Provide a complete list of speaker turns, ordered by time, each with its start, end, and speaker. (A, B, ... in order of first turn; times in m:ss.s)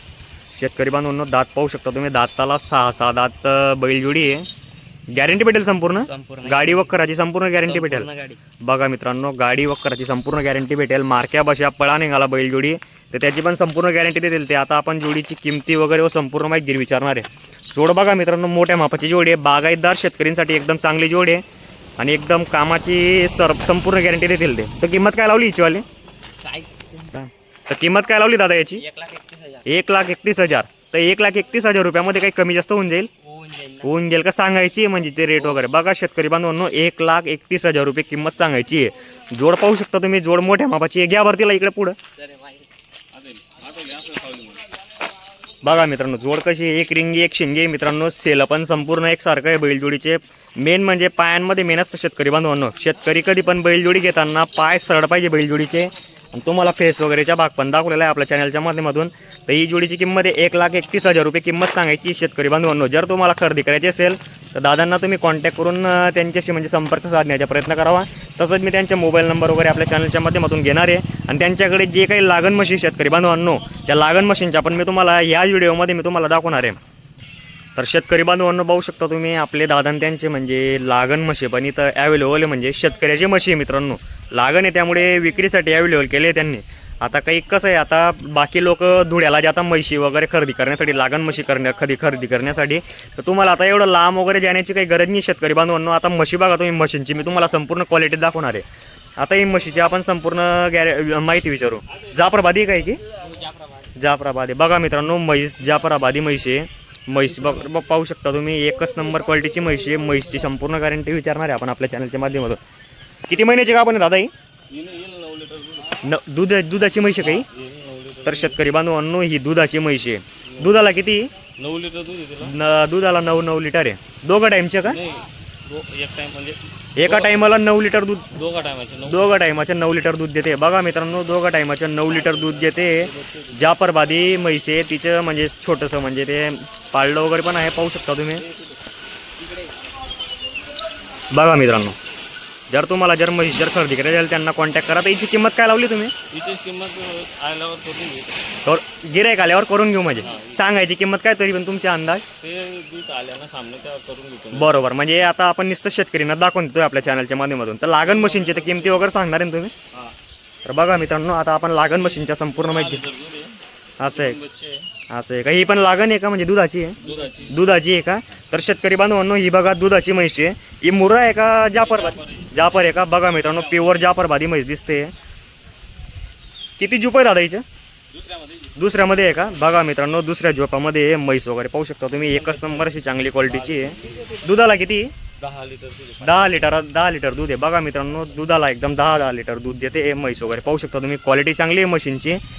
0:00.5-0:04.5 A
0:05.1-0:08.1 A
0:06.0-0:07.0 B
0:07.6-0:08.4 B
0:08.6-0:21.4 A
0:22.0-0:25.8 A
0:26.4-0:27.2 B
0:27.2-0:28.8 A
0:28.8-0:29.7 B
0:29.6-0:33.1 A
0:33.2-0:34.0 B
0:33.8-0:42.0 A
0:42.2-0:42.7 B
0:43.1-0:44.7 C
0:45.6-1:16.8 A
1:17.8-1:38.6 A
1:39.2-1:43.0 A
1:43.2-1:43.9 B
1:44.0-1:52.6 A
1:47.2-1:47.8 C
1:53.3-1:54.3 A
1:54.7-1:56.0 C
1:56.0-1:57.5 A
1:57.2-1:58.6 C
1:58.2-2:01.3 A
2:00.5-2:00.8 C
2:01.6-2:02.6 C
2:02.4-2:05.0 A
2:04.8-2:07.5 C
2:07.0-2:08.3 A
2:08.3-2:09.4 C
2:09.1-2:18.4 A
2:12.1-2:13.6 C
2:18.4-2:18.8 C
2:21.3-2:22.0 A
2:22.7-2:26.1 A
2:26.3-2:28.4 C
2:28.6-2:32.2 A
2:30.2-2:30.6 C
2:32.4-2:34.9 C
2:34.5-2:39.7 A
2:38.0-2:39.1 C
2:39.9-2:40.2 C
2:40.6-2:43.0 A
2:42.0-2:44.9 C
2:44.0-2:44.4 A
2:45.1-2:55.1 A
2:47.0-2:47.6 C
2:51.7-2:54.2 C
2:56.8-2:57.6 A
2:58.1-2:58.8 C
2:58.8-3:05.1 A
3:02.2-3:04.4 C
3:05.4-3:06.8 C
3:06.2-3:12.4 A